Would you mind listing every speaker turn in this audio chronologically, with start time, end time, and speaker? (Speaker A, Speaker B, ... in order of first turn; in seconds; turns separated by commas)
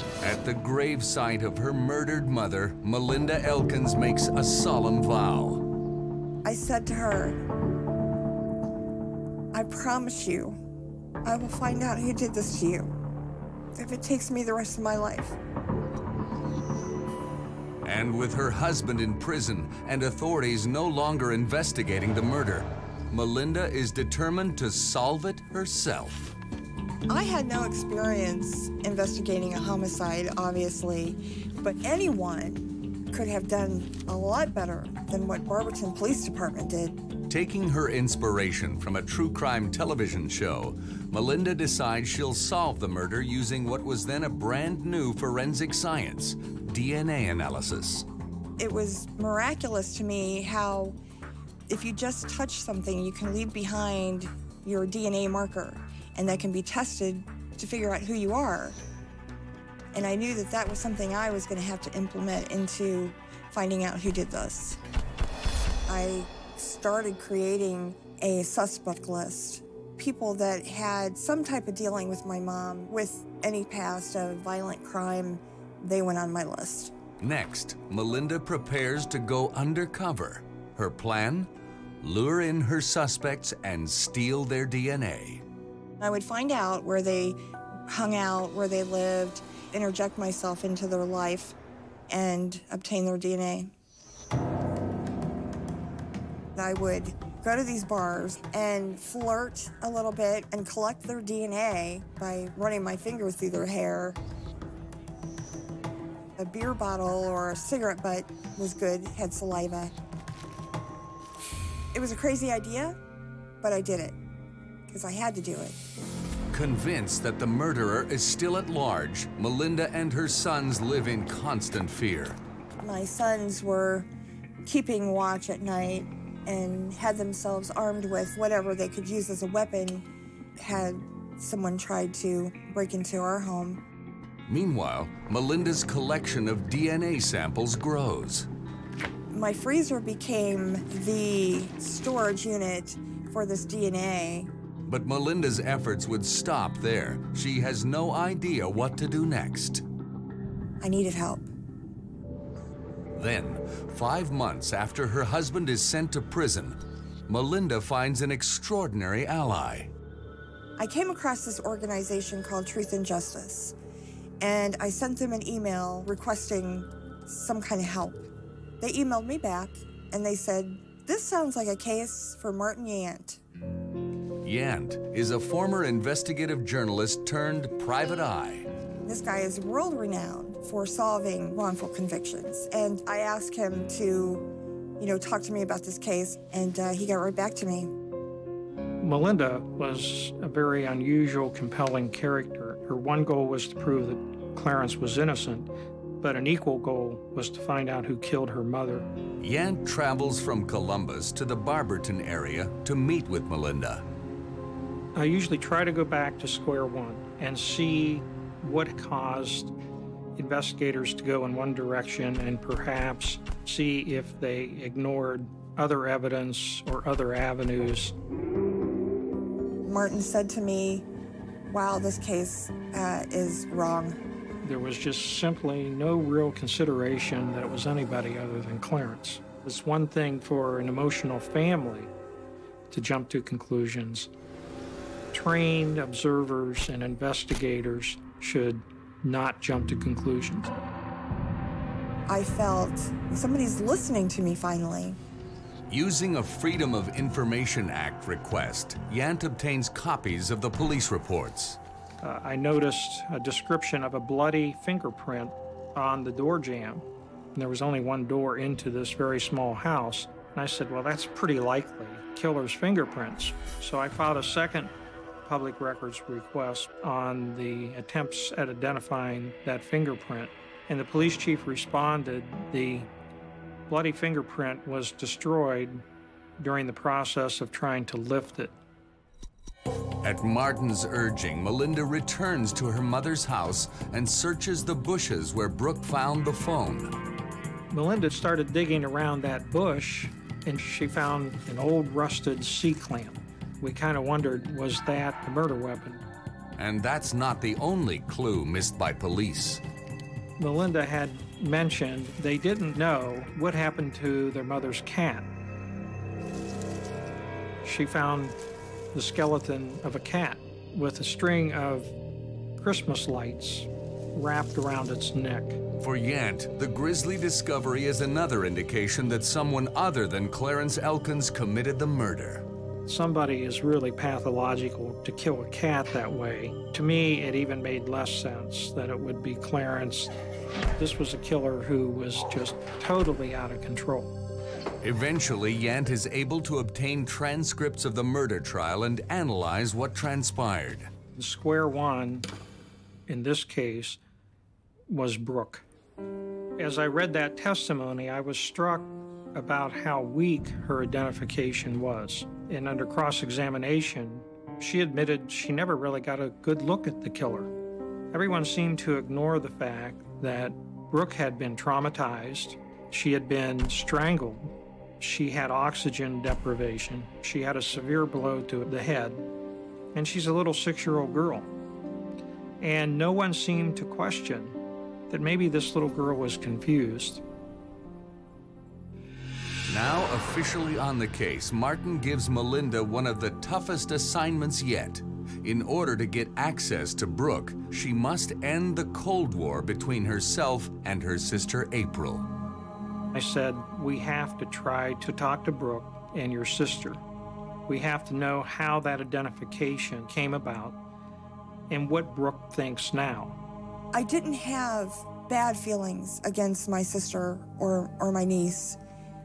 Speaker A: 0.2-5.6, Speaker B: 6.4-7.4, Speaker B: 9.5-10.6, Speaker B: 11.2-12.9, Speaker B: 13.8-15.4, Speaker A: 17.8-26.3, Speaker B: 27.1-37.0, Speaker A: 37.3-48.0, Speaker B: 48.6-51.0, Speaker B: 51.7-58.8, Speaker B: 59.9-64.8, Speaker B: 65.9-76.9, Speaker A: 77.2-81.5, Speaker A: 82.0-85.4, Speaker B: 86.0-91.5, Speaker B: 92.1-93.7, Speaker B: 96.5-104.2, Speaker B: 106.4-109.9, Speaker B: 111.9-113.0, Speaker B: 113.6-114.2, Speaker B: 114.9-115.8, Speaker A: 116.5-122.4, Speaker B: 122.8-124.1, Speaker B: 124.7-130.1, Speaker B: 130.6-133.8, Speaker A: 134.5-138.5, Speaker B: 139.3-144.5, Speaker A: 144.8-149.8, Speaker B: 150.8-151.5, Speaker A: 153.1-156.8, Speaker A: 157.3-159.9, Speaker B: 160.8-163.7, Speaker B: 164.4-168.2, Speaker B: 168.8-173.4, Speaker A: 174.4-178.7, Speaker B: 179.1-184.4, Speaker B: 185.0-187.9, Speaker C: 189.0-195.7, Speaker C: 196.2-199.1, Speaker A: 199.4-204.0, Speaker C: 205.1-209.7, Speaker C: 210.3-218.1, Speaker B: 219.8-221.1, Speaker B: 221.7-224.2, Speaker C: 224.6-232.1, Speaker C: 232.9-234.3, Speaker C: 235.3-240.7, Speaker B: 242.3-245.2, Speaker A: 245.9-251.8, Speaker C: 252.2-264.9, Speaker C: 265.4-273.1, Speaker C: 273.9-276.0, Speaker C: 276.6-278.7, Speaker A: 280.2-287.1, Speaker C: 287.9-296.2, Speaker A: 296.8-299.8, Speaker C: 300.6-305.5, Speaker C: 307.8-308.6, Speaker C: 309.1-312.1, Speaker C: 312.8-315.8, Speaker A: 316.0-322.6, Speaker C: 323.1-330.3, Speaker C: 331.0-334.3, Speaker A: 335.0-341.1, Speaker C: 341.3-342.5, Speaker C: 343.3-344.2, Speaker C: 345.1-345.8, Speaker C: 346.8-357.7, Speaker C: 358.3-369.4, Speaker C: 370.1-371.7, Speaker C: 372.8-374.8, Speaker C: 375.3-377.4, Speaker A: 379.9-392.5, Speaker C: 393.3-397.2, Speaker C: 397.9-401.0, Speaker C: 401.9-403.6, Speaker B: 404.1-409.0